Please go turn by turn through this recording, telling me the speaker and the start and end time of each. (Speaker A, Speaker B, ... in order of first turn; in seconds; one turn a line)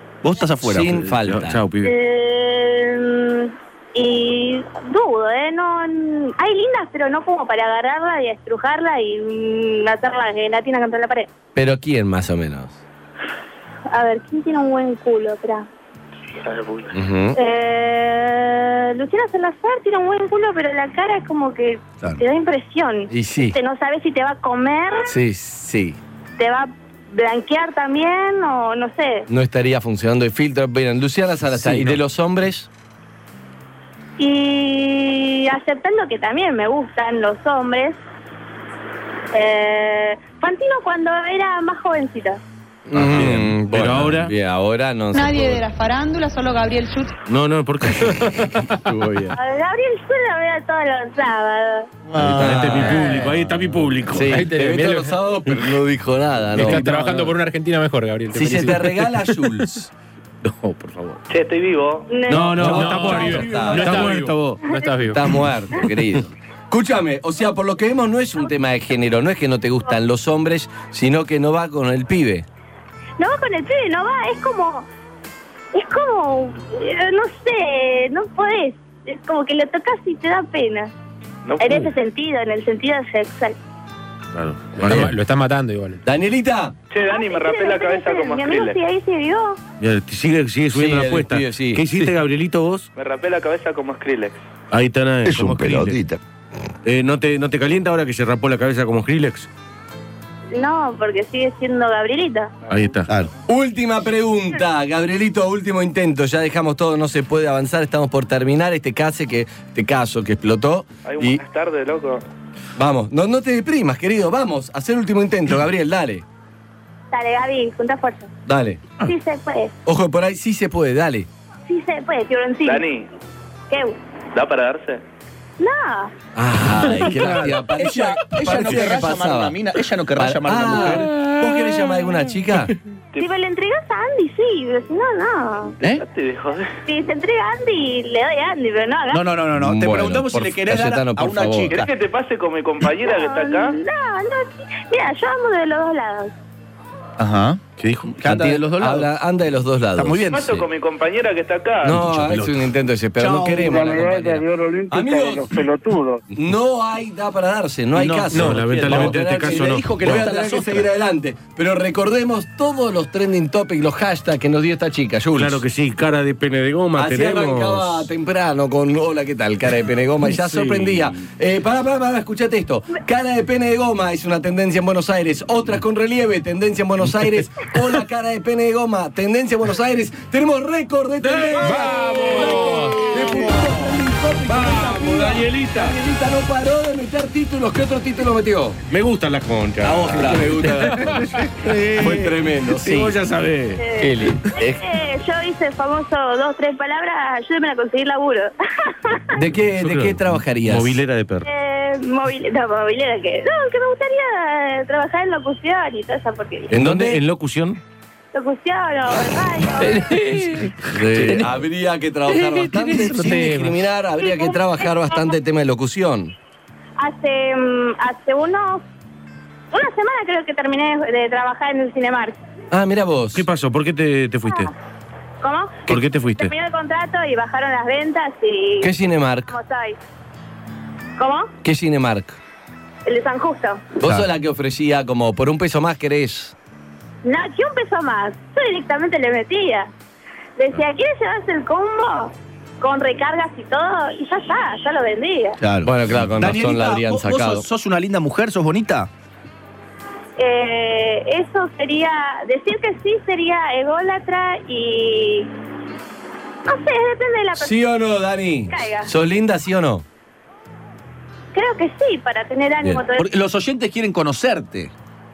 Speaker A: 0.2-1.1
Speaker B: 0.6-1.6
Speaker C: 1.1-1.9
Speaker D: 1.8-11.3
Speaker B: 11.6-12.8
Speaker D: 13.9-15.7
Speaker E: 16.4-16.9
Speaker B: 16.9-17.4
Speaker D: 17.4-25.1
Speaker B: 23.1-23.6
Speaker B: 25.1-26.0
Speaker D: 26.4-29.3
Speaker B: 29.3-32.7
Speaker C: 31.6-31.9
Speaker D: 34.2-38.0
Speaker D: 39.3-42.4
Speaker B: 42.9-45.6
Speaker C: 42.9-44.3
Speaker F: 45.1-47.1
Speaker C: 47.3-48.6
Speaker B: 48.7-49.4
Speaker D: 49.4-51.9
Speaker A: 52.1-53.4
Speaker B: 52.2-53.3
Speaker C: 52.2-54.4
Speaker B: 54.1-57.1
Speaker G: 54.2-55.2
Speaker G: 56.5-59.2
Speaker B: 58.3-59.9
Speaker C: 60.4-61.2
Speaker E: 61.3-62.1
Speaker D: 62.1-63.3
Speaker C: 62.3-64.7
Speaker B: 62.4-64.2
Speaker G: 62.5-65.4
Speaker B: 65.1-72.5
Speaker D: 73.2-74.9
Speaker D: 75.7-80.9
Speaker E: 81.5-81.9
Speaker D: 81.6-83.6
Speaker C: 84.3-85.2
Speaker G: 84.8-86.0
Speaker B: 84.9-85.1
Speaker B: 86.0-86.8
Speaker E: 86.9-88.8
Speaker D: 87.1-89.6
Speaker C: 89.8-92.9
Speaker B: 90.7-92.1
Speaker E: 93.0-94.4
Speaker C: 94.7-96.1
Speaker A: 95.3-96.2
Speaker C: 96.8-99.5
Speaker D: 100.5-102.5
Speaker E: 102.7-102.9
Speaker C: 102.7-103.1
Speaker B: 103.5-111.4
Speaker E: 111.1-112.2
Speaker B: 112.8-116.2
Speaker D: 117.1-118.3
Speaker B: 118.5-119.0
Speaker D: 119.0-119.8
Speaker B: 119.9-121.3
Speaker D: 121.7-122.9
Speaker E: 122.7-123.1
Speaker D: 123.7-124.0
Speaker E: 124.3-125.0
Speaker D: 125.6-126.1
Speaker B: 126.3-129.6
Speaker C: 127.2-127.5
Speaker A: 127.7-131.2
Speaker B: 130.2-132.7
Speaker D: 133.2-135.8
Speaker E: 135.9-136.8
Speaker D: 136.9-139.2
Speaker A: 139.1-141.9
Speaker B: 139.5-141.8
Speaker E: 141.7-143.8
Speaker D: 143.1-146.3
Speaker A: 147.2-149.1
Speaker C: 147.8-148.2
Speaker B: 148.2-150.3
Speaker A: 150.0-150.6
Speaker E: 150.3-152.0
Speaker B: 151.8-155.6
Speaker A: 151.9-152.5
Speaker A: 153.2-153.8
Speaker H: 153.6-156.2
Speaker B: 156.3-165.6
Speaker A: 157.9-160.9
Speaker G: 158.3-158.7
Speaker C: 158.3-160.3
Speaker C: 165.3-168.1
Speaker B: 167.0-188.8
Speaker C: 170.4-171.0
Speaker C: 181.2-183.4
Speaker A: 182.3-184.0
Speaker C: 184.5-186.0
Speaker C: 188.9-193.8
Speaker B: 189.8-191.4
Speaker A: 190.0-190.3
Speaker A: 191.5-192.3
Speaker B: 192.0-193.2
Speaker D: 193.8-199.3
Speaker B: 194.0-194.8
Speaker B: 199.3-201.0
Speaker C: 199.8-201.5
Speaker D: 201.4-206.7
Speaker B: 206.7-207.2
Speaker C: 206.7-207.8
Speaker D: 208.3-210.1
Speaker G: 209.8-211.4
Speaker B: 210.9-216.3
Speaker G: 212.3-213.8
Speaker D: 214.2-215.3
Speaker D: 217.0-218.8
Speaker D: 219.7-222.4
Speaker B: 222.7-223.5
Speaker C: 223.3-224.7
Speaker D: 224.5-224.7
Speaker D: 225.4-228.9
Speaker C: 225.9-226.5
Speaker B: 228.8-229.5
Speaker D: 229.5-230.0
Speaker D: 231.2-231.5
Speaker B: 231.6-232.4
Speaker D: 233.1-233.9
Speaker B: 234.0-236.6
Speaker D: 237.2-239.9
Speaker D: 240.6-245.6
Speaker A: 245.6-249.1
Speaker B: 245.8-247.7
Speaker D: 250.4-255.5
Speaker D: 256.7-257.7
Speaker B: 257.6-260.1
Speaker D: 258.7-259.1
Speaker D: 261.5-263.3
Speaker A: 263.1-264.9